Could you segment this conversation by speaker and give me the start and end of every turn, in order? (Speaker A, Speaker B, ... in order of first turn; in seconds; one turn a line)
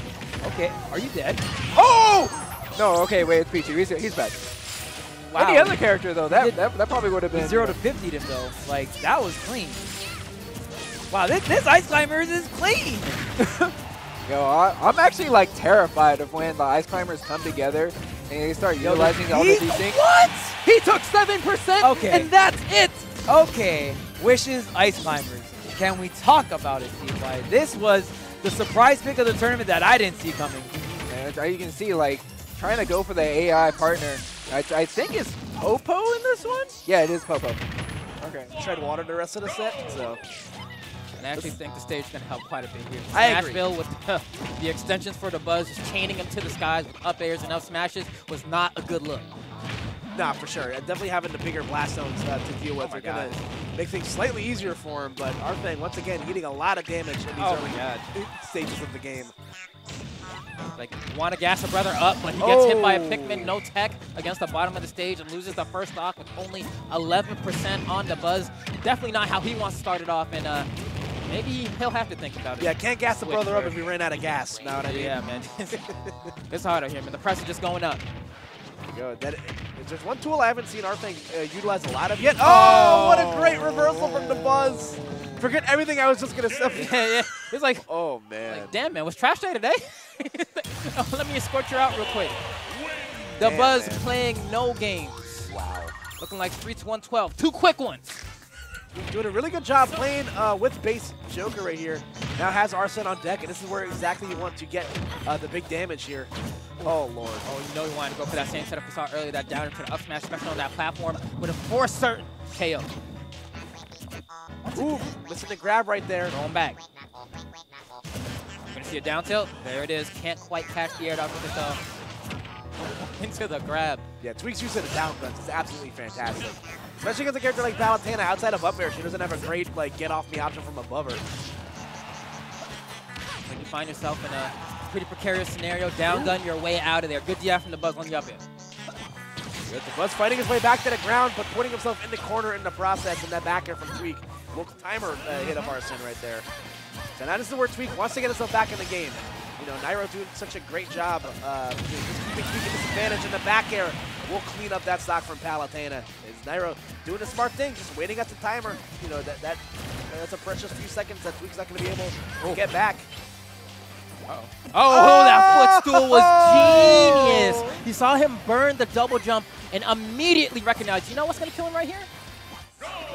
Speaker A: 0.4-1.4
Speaker B: 1.7-4.4
Speaker A: 5.1-6.6
Speaker B: 5.3-7.8
Speaker A: 7.3-9.9
Speaker A: 11.1-13.2
Speaker B: 13.4-13.7
Speaker B: 14.2-20.0
Speaker A: 18.8-20.6
Speaker C: 20.6-23.0
Speaker B: 20.7-21.9
Speaker A: 21.8-22.3
Speaker A: 23.2-30.7
Speaker B: 30.7-37.6
Speaker B: 38.2-38.5
Speaker D: 38.6-40.2
Speaker C: 41.2-49.3
Speaker D: 41.3-41.5
Speaker D: 43.1-43.7
Speaker D: 50.1-59.3
Speaker C: 52.8-53.4
Speaker C: 57.4-58.0
Speaker C: 60.7-70.7
Speaker D: 62.4-63.5
Speaker C: 71.2-73.8
Speaker D: 72.6-76.3
Speaker C: 74.6-75.8
Speaker C: 76.5-78.0
Speaker D: 78.9-87.0
Speaker C: 82.2-85.0
Speaker C: 86.7-87.8
Speaker D: 87.7-88.8
Speaker C: 88.4-92.4
Speaker D: 93.1-94.1
Speaker C: 93.4-95.5
Speaker D: 95.5-96.0
Speaker C: 96.1-98.2
Speaker D: 98.9-107.5
Speaker C: 106.8-112.9
Speaker C: 114.6-115.1
Speaker D: 114.7-116.3
Speaker C: 116.3-116.8
Speaker C: 118.7-121.8
Speaker C: 123.0-124.0
Speaker D: 124.2-131.2
Speaker C: 133.5-138.4
Speaker D: 136.1-136.4
Speaker D: 139.7-146.4
Speaker C: 145.4-145.7
Speaker D: 147.1-163.1
Speaker C: 164.3-172.1
Speaker D: 164.9-167.8